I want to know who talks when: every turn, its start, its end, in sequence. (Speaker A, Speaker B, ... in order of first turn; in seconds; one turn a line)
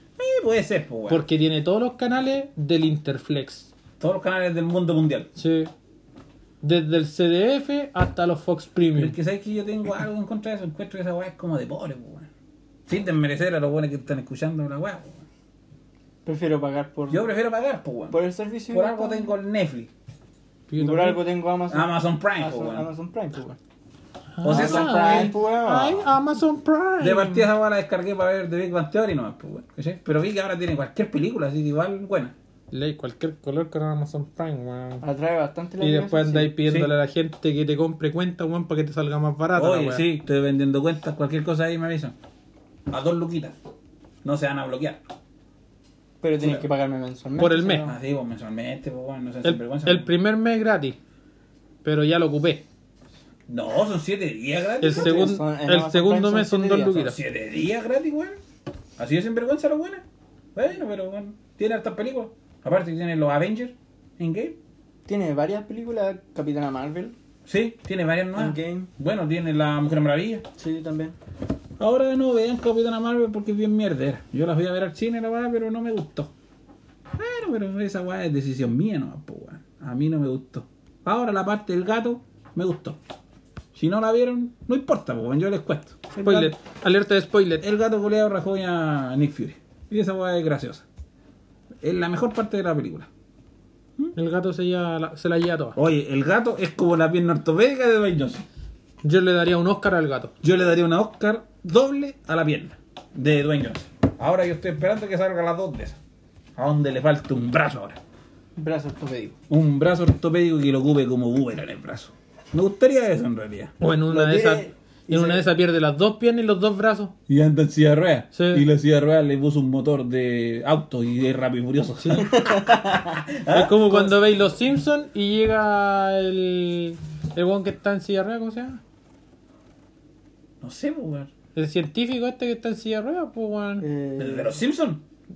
Speaker A: 0.2-1.2
Speaker B: 1.1-3.7
Speaker A: 4.0-5.3
Speaker B: 5.4-5.7
Speaker B: 6.6-9.1
Speaker A: 8.9-12.3
Speaker A: 12.9-15.2
Speaker C: 16.2-17.2
Speaker A: 17.1-18.2
Speaker C: 18.1-19.3
Speaker A: 18.7-19.9
Speaker B: 20.7-21.2
Speaker C: 20.8-23.6
Speaker A: 21.7-22.9
Speaker B: 24.4-27.5
Speaker A: 24.4-25.3
Speaker C: 24.4-26.1
Speaker A: 27.0-32.3
Speaker B: 32.7-35.0
Speaker C: 35.0-36.5
Speaker B: 35.8-40.0
Speaker A: 36.6-36.9
Speaker A: 39.5-42.1
Speaker A: 42.9-43.6
Speaker A: 44.2-45.0
Speaker C: 46.2-48.0
Speaker A: 46.4-46.6
Speaker B: 47.4-47.9
Speaker A: 47.8-50.1
Speaker B: 49.4-51.0
Speaker B: 51.8-52.6
Speaker A: 53.5-55.3
Speaker B: 54.8-57.2
Speaker C: 54.8-57.1
Speaker A: 57.0-58.4
Speaker A: 59.0-60.0
Speaker A: 60.5-64.6
Speaker C: 65.0-67.1
Speaker A: 67.5-70.5
Speaker C: 68.3-68.9
Speaker C: 70.6-71.2
Speaker A: 71.8-76.3
Speaker A: 77.2-83.0
Speaker A: 83.7-86.0
Speaker C: 86.1-86.5
Speaker B: 86.2-87.6
Speaker A: 87.6-90.8
Speaker A: 91.8-93.1
Speaker B: 94.1-95.8
Speaker A: 95.8-98.4
Speaker B: 99.0-100.3
Speaker A: 100.4-106.0
Speaker A: 106.6-108.0
Speaker C: 108.5-109.4
Speaker A: 109.5-113.7
Speaker B: 113.8-117.1
Speaker C: 114.1-115.4
Speaker A: 117.3-123.8
Speaker B: 118.3-118.6
Speaker B: 122.0-122.3
Speaker C: 122.2-123.2
Speaker B: 123.5-128.8
Speaker A: 130.6-131.3
Speaker B: 131.5-133.8
Speaker C: 133.8-134.5
Speaker A: 134.2-135.0